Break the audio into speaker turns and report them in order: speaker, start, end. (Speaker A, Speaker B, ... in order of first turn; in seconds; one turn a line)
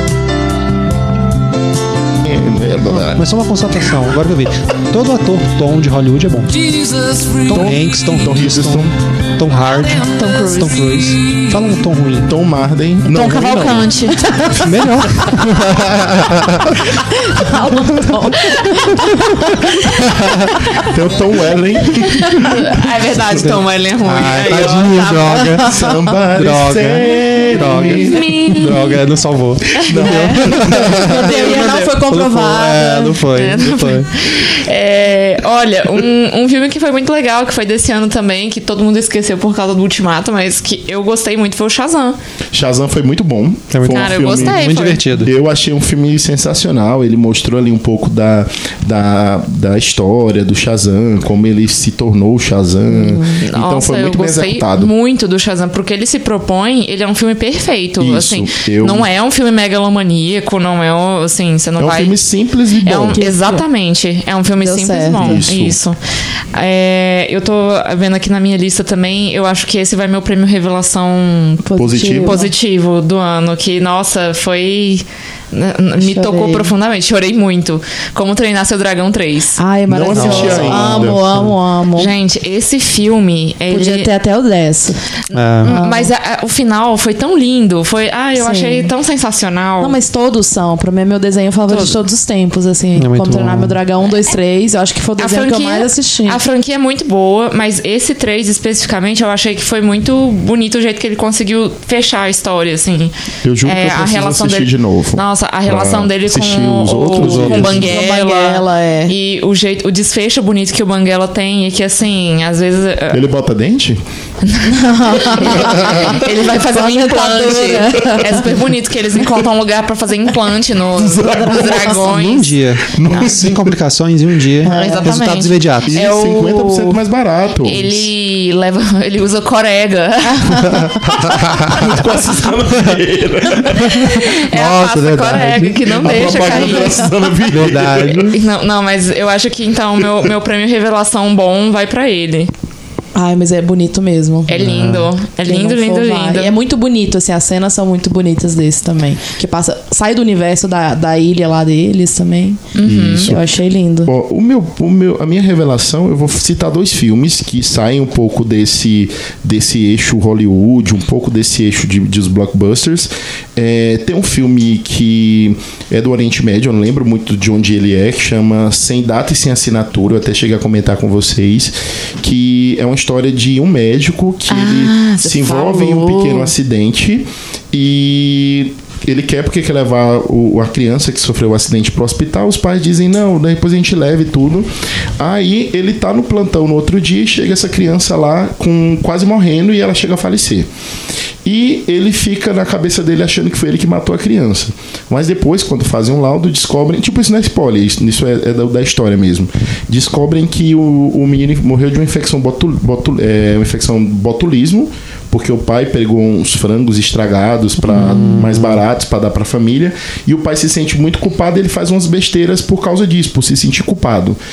Speaker A: 2.2-3.2
Speaker B: 2.9-6.5
Speaker C: 6.5-7.8
Speaker A: 7.5-8.9
Speaker B: 7.5-12.3
Speaker C: 9.7-10.2
Speaker D: 10.1-10.8
Speaker C: 10.8-11.6
Speaker A: 12.2-14.1
Speaker D: 13.1-14.6
Speaker E: 14.1-14.7
Speaker B: 14.5-16.8
Speaker E: 16.9-19.8
Speaker B: 20.1-20.5
Speaker E: 20.4-20.9
Speaker A: 20.8-22.7
Speaker E: 22.1-22.4
Speaker D: 22.4-25.7
Speaker B: 23.3-25.8
Speaker A: 25.6-28.9
Speaker B: 26.3-34.1
Speaker D: 27.8-29.0
Speaker A: 29.7-31.1
Speaker E: 29.9-33.4
Speaker D: 31.0-31.9
Speaker D: 33.3-42.2
Speaker A: 42.5-54.9
Speaker B: 43.7-45.3
Speaker D: 43.8-45.0
Speaker E: 52.9-53.4
Speaker D: 53.4-62.1
Speaker A: 58.0-59.1
Speaker A: 61.8-63.2
Speaker D: 62.8-66.0
Speaker E: 63.1-63.6
Speaker E: 64.6-65.4
Speaker A: 65.2-65.8
Speaker D: 66.5-71.7
Speaker E: 71.6-72.5
Speaker A: 71.8-72.4
Speaker D: 72.2-79.6
Speaker E: 76.0-76.7
Speaker E: 79.6-82.1
Speaker A: 79.9-81.2
Speaker B: 80.1-81.5
Speaker D: 80.3-80.7
Speaker D: 82.0-84.1
Speaker E: 83.7-85.0
Speaker B: 85.3-85.7
Speaker D: 85.3-90.0
Speaker E: 85.6-86.1
Speaker E: 88.4-88.9
Speaker E: 89.8-96.4
Speaker D: 91.7-92.0
Speaker B: 93.0-93.8
Speaker D: 95.2-103.1
Speaker A: 103.4-107.9
Speaker D: 103.6-113.2
Speaker B: 107.2-107.8
Speaker E: 107.7-109.1
Speaker A: 113.1-114.0
Speaker D: 114.4-123.3
Speaker E: 114.7-118.6
Speaker A: 115.4-116.1
Speaker A: 121.0-122.0
Speaker E: 121.3-121.9
Speaker B: 121.9-125.9
Speaker A: 122.9-123.8
Speaker E: 124.6-125.2
Speaker D: 124.6-127.0
Speaker A: 125.8-128.1
Speaker D: 127.6-130.9
Speaker E: 130.3-130.8
Speaker A: 131.7-134.2
Speaker B: 133.8-136.0
Speaker D: 133.9-137.1
Speaker A: 135.3-138.4
Speaker E: 136.6-137.0
Speaker B: 137.5-138.3
Speaker D: 137.7-142.5
Speaker E: 143.1-144.6
Speaker D: 144.5-146.6
Speaker B: 144.6-145.1
Speaker E: 145.4-152.6
Speaker D: 152.7-153.3
Speaker A: 152.8-190.7
Speaker E: 153.3-154.1
Speaker D: 174.5-176.5
Speaker A: 191.4-214.4
Speaker B: 208.0-208.8